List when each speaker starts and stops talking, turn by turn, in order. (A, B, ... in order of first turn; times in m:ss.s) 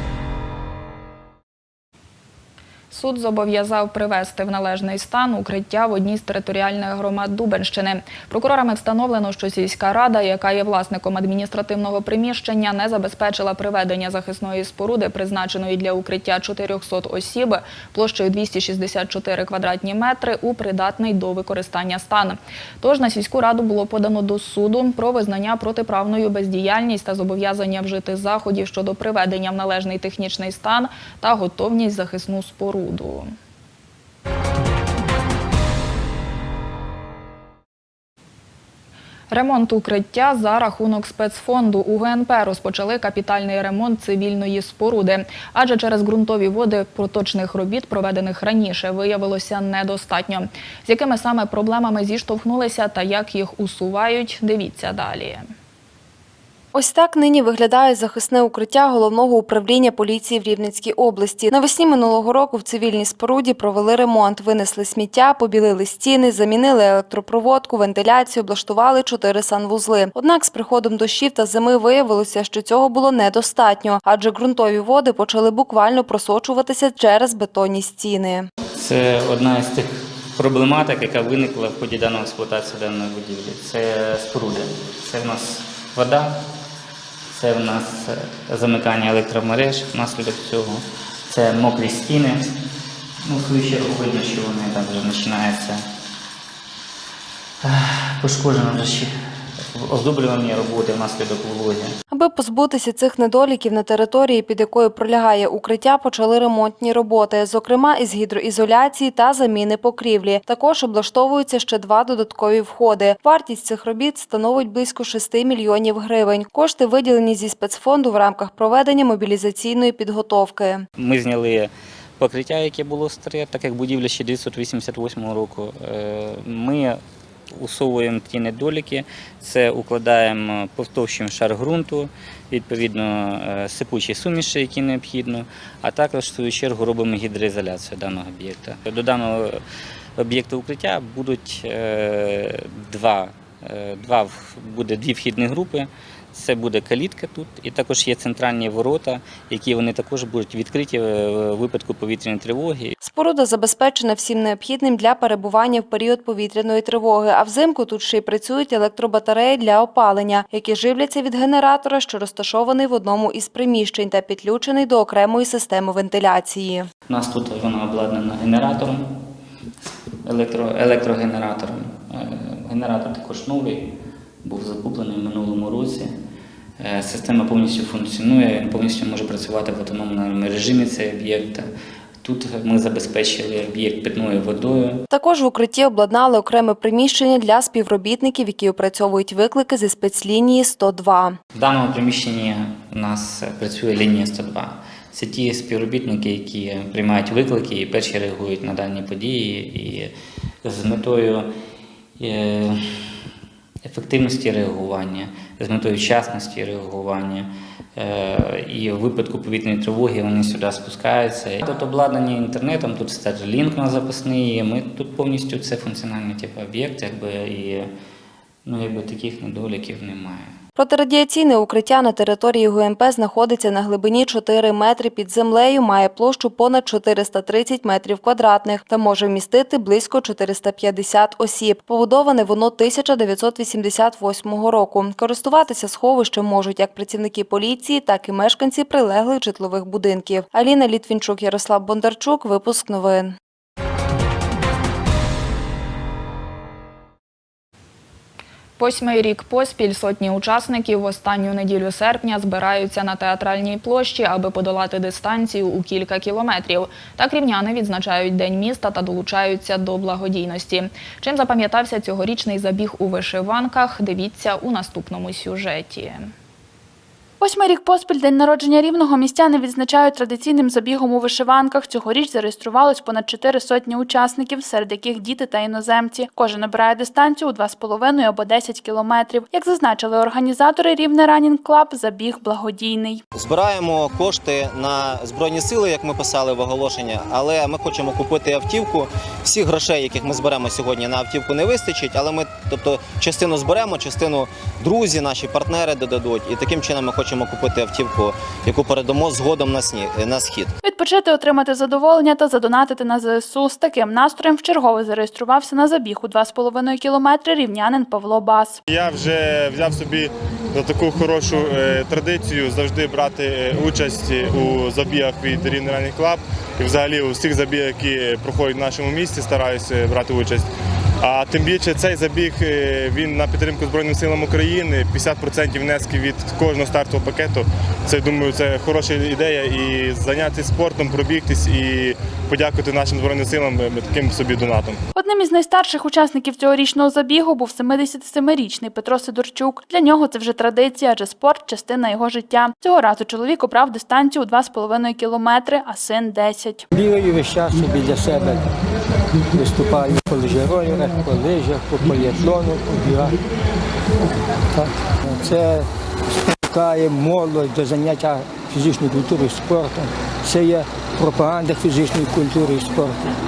0:02.9-0:33.3 A
0:39.3-0:55.5 A
0:56.7-1:18.5 B
1:18.7-1:26.4 C
1:27.3-1:32.5 C
1:33.2-1:35.8 C
1:37.6-1:41.9 C
1:42.1-2:00.8 B
2:01.0-2:07.0 C
2:07.5-2:19.6 C
2:20.2-2:33.0 C
2:33.0-2:46.9 B
2:47.1-2:49.1 C
2:50.2-2:53.9 C
2:54.4-2:56.1 C
2:56.8-3:01.7 C
3:02.2-3:05.0 C
3:05.1-3:11.4 B
3:11.5-3:21.5 C
3:22.2-3:22.8 C
3:23.8-3:37.9 C
3:38.6-3:40.5 C
3:40.8-4:03.3 B
4:08.8-4:26.3 A
4:27.4-4:43.2 D
4:43.3-5:00.7 E
5:00.8-5:08.8 D
5:08.9-5:20.6 F
5:21.2-5:35.0 F
5:35.2-5:46.8 D
5:46.9-5:48.7 G
5:49.5-5:53.3 G
5:54.7-5:55.9 G
5:56.7-6:03.2 G